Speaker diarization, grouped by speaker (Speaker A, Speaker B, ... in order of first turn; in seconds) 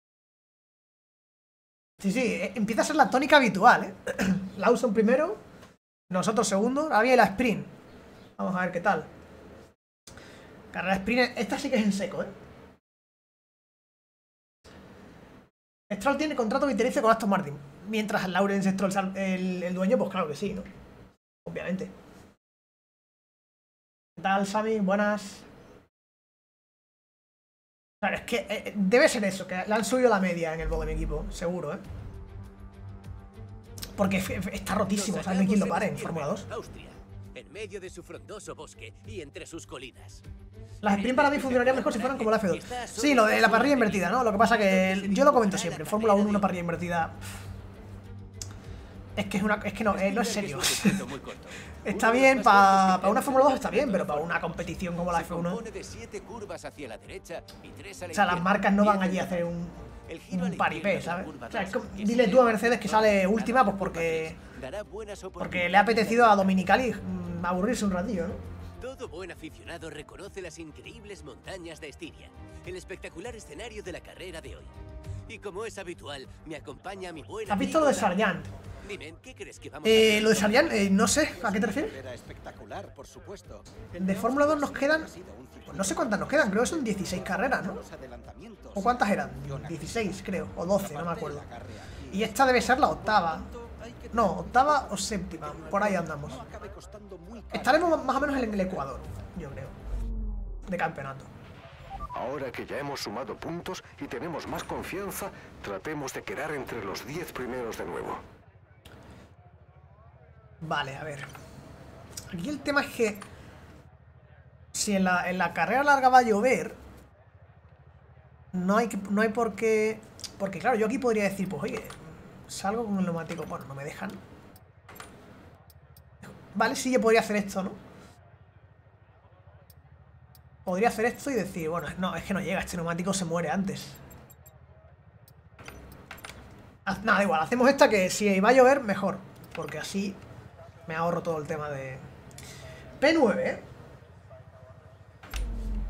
Speaker A: 2.0-5.4, 6.1-7.7, 8.4-9.1, 10.7-12.3, 15.9-20.7, 21.4-21.9, 24.2-25.4, 28.0-31.8, 34.0-36.5, 40.8-47.1, 49.2-51.0, 51.8-55.6, 58.1-64.4, 65.4-68.4, 77.5-78.5, 79.8-82.0, 83.9-85.1, 85.7-87.8, 88.7-91.4, 92.1-93.5, 94.1-96.4, 97.5-99.7, 100.7-101.3, 110.6-111.3, 112.3-113.2, 114.7-116.8, 118.5-124.2, 126.2-127.8, 130.7-134.0, 136.8-140.2, 140.9-142.0, 143.0-143.6
Speaker B: 34.9-40.2, 40.9-46.5, 49.9-59.5, 60.0-66.7, 68.8-74.7, 75.3-98.9
Speaker C: 102.1-108.2